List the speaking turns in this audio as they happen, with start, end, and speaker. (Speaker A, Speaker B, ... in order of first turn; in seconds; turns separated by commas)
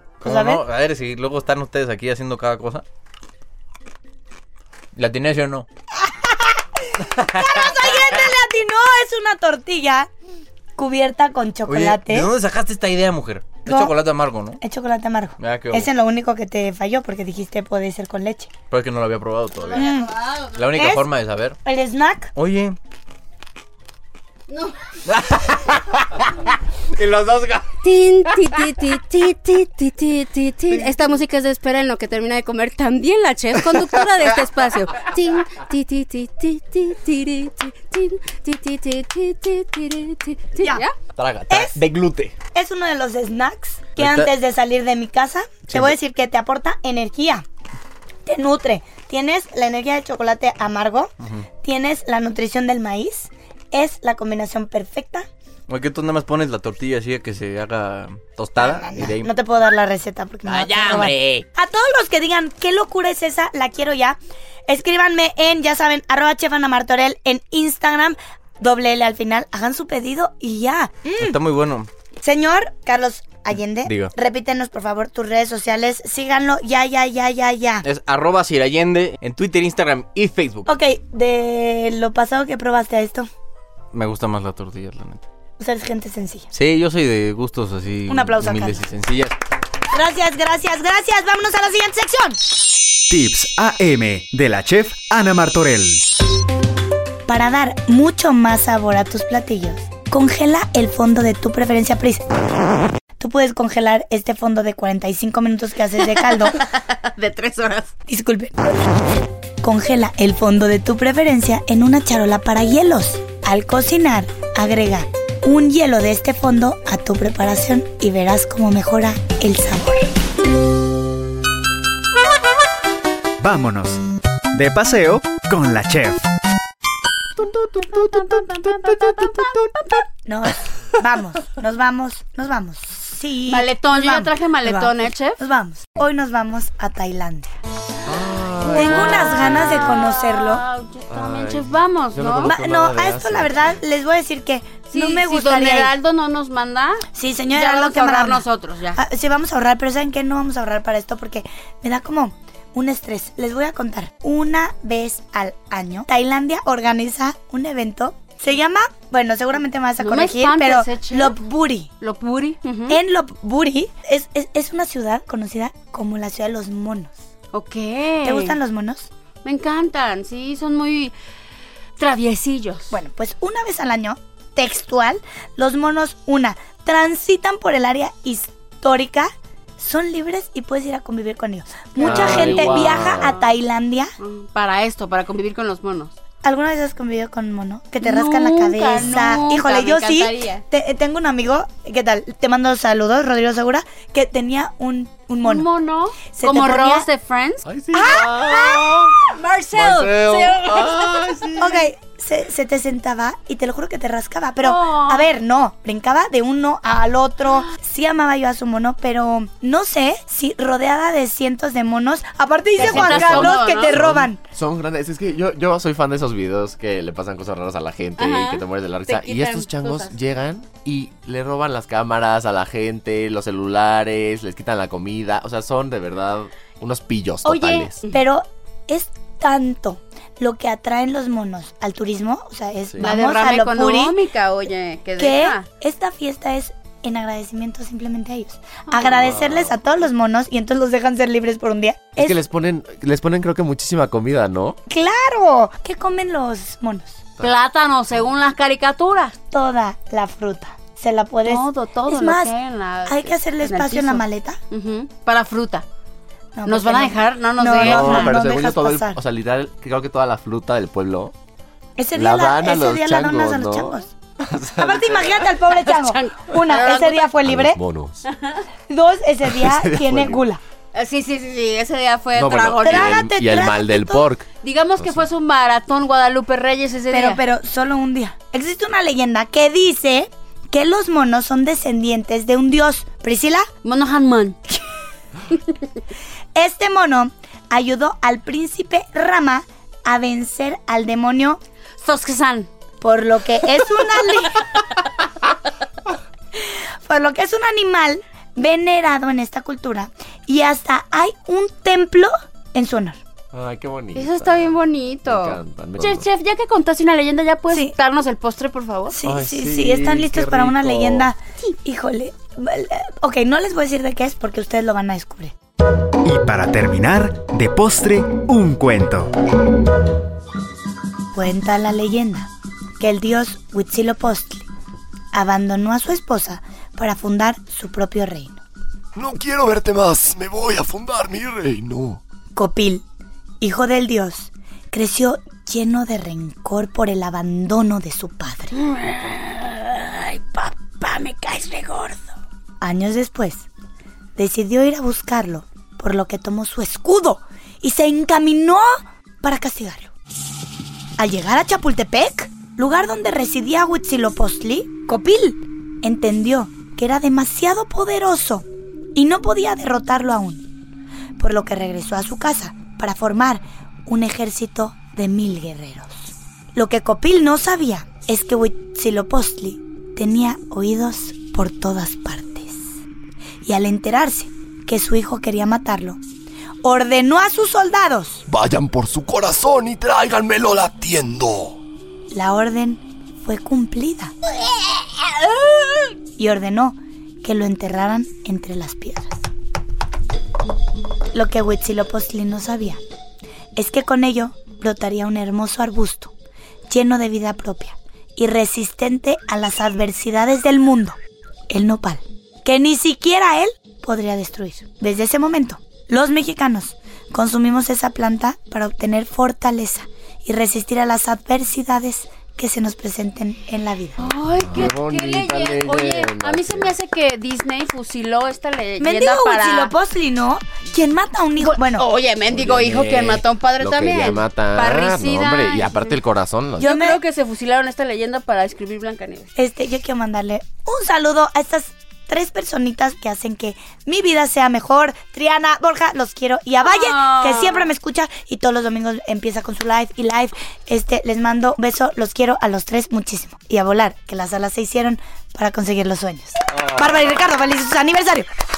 Speaker A: 0.2-2.8, Speaker B: 0.2-0.6, Speaker A: 5.0-5.7, Speaker B: 6.2-6.5, Speaker B: 7.1-10.1, Speaker A: 7.1-8.1, Speaker B: 10.8-12.3, Speaker A: 11.7-14.6, Speaker B: 13.7-13.9, Speaker B: 14.6-18.5, Speaker A: 15.4-15.9, Speaker A: 18.7-19.9, Speaker C: 19.6-20.5, Speaker B: 19.8-20.1, Speaker A: 20.5-21.6, Speaker B: 20.7-21.0, Speaker B: 21.6-22.3, Speaker A: 22.4-22.8, Speaker C: 24.5-24.7, Speaker A: 25.1-26.2, Speaker A: 26.9-27.8, Speaker C: 27.8-41.0, Speaker A: 41.2-42.3, Speaker B: 41.5-41.8, Speaker B: 42.5-47.5, Speaker A: 44.0-44.3, Speaker B: 48.3-51.1, Speaker A: 51.2-51.5, Speaker B: 51.6-55.3, Speaker A: 55.7-59.3, Speaker B: 58.6-71.3, Speaker A: 60.5-61.4, Speaker A: 71.2-71.9, Speaker B: 72.2-77.8, Speaker A: 73.8-74.1, Speaker A: 77.8-80.7, Speaker B: 80.7-83.3, Speaker A: 83.9-85.2, Speaker B: 85.6-86.5, Speaker A: 86.5-89.4, Speaker B: 88.1-88.8, Speaker B: 89.9-92.4, Speaker D: 93.1-96.0, Speaker B: 97.3-102.2, Speaker B: 103.2-106.6, Speaker C: 106.0-107.9, Speaker B: 108.1-108.8, Speaker B: 109.6-120.1, Speaker D: 123.4-124.0, Speaker D: 124.5-126.3, Speaker C: 127.8-130.0, Speaker B: 130.3-137.5, Speaker C: 133.5-135.4, Speaker E: 138.1-139.9, Speaker C: 138.7-142.6, Speaker B: 138.7-140.6, Speaker E: 141.1-143.8, Speaker B: 142.5-145.9, Speaker C: 144.9-149.0, Speaker B: 147.2-161.9, Speaker C: 160.0-161.4, Speaker C: 162.0-163.0, Speaker B: 162.9-167.2, Speaker C: 167.5-168.6, Speaker B: 168.2-169.1, Speaker C: 169.4-171.2, Speaker C: 172.0-172.9, Speaker B: 172.9-184.1, Speaker C: 182.0-182.9, Speaker E: 182.0-183.4, Speaker C: 184.2-186.1, Speaker B: 186.4-195.7, Speaker C: 188.0-190.6, Speaker C: 195.4-201.4, Speaker B: 196.3-197.1, Speaker E: 197.7-199.1, Speaker B: 197.9-198.8, Speaker E: 199.7-201.8, Speaker B: 201.6-214.4, Speaker C: 204.6-205.3, Speaker C: 212.8-214.1, Speaker E: 212.8-228.0, Speaker C: 218.2-220.1, Speaker C: 227.4-228.2, Speaker B: 228.1-234.2, Speaker C: 233.0-235.7, Speaker B: 235.2-242.4, Speaker E: 239.2-239.7, Speaker E: 242.2-244.8, Speaker B: 244.9-247.2, Speaker C: 247.4-249.3, Speaker B: 249.5-252.5, Speaker C: 251.4-255.9, Speaker B: 253.1-254.6, Speaker B: 256.6-259.2, Speaker C: 256.7-258.4, Speaker E: 257.8-261.3, Speaker B: 262.0-264.1, Speaker E: 262.1-265.4, Speaker B: 264.8-267.8, Speaker C: 265.7-267.4, Speaker E: 267.4-268.2, Speaker C: 268.3-268.6, Speaker B: 268.9-270.6, Speaker E: 269.4-270.4, Speaker C: 270.9-273.2, Speaker E: 272.4-275.2, Speaker B: 272.8-274.2, Speaker C: 274.5-277.4, Speaker B: 277.1-283.7, Speaker C: 283.8-284.6, Speaker B: 286.6-291.6, Speaker C: 292.0-292.7, Speaker B: 293.0-294.8, Speaker B: 296.6-303.2, Speaker E: 303.5-304.8, Speaker C: 304.1-309.2, Speaker E: 305.3-306.3, Speaker B: 309.1-315.5, Speaker E: 309.3-311.3, Speaker D: 316.2-319.3, Speaker B: 321.3-324.7, Speaker B: 325.3-328.6, Speaker F: 329.1-332.2, Speaker B: 332.6-333.0, Speaker B: 333.6-338.7, Speaker C: 338.8-342.3, Speaker B: 342.8-343.7, Speaker B: 344.4-350.1, Speaker B: 351.2-360.7, Speaker B: 361.4-372.9, Speaker B: 373.6-376.2, Speaker B: 376.8-378.4, Speaker F: 378.5-381.8, Speaker B: 382.3-384.3, Speaker B: 386.4-389.4, Speaker B: 391.3-393.0, Speaker B: 393.8-396.3, Speaker B: 396.9-401.2, Speaker B: 401.7-414.2, Speaker C: 414.2-419.9, Speaker E: 414.6-416.9, Speaker B: 419.0-422.1, Speaker C: 421.6-426.2, Speaker E: 422.4-426.9, Speaker C: 426.8-429.5, Speaker B: 426.8-427.2, Speaker B: 429.6-448.5, Speaker C: 436.8-437.9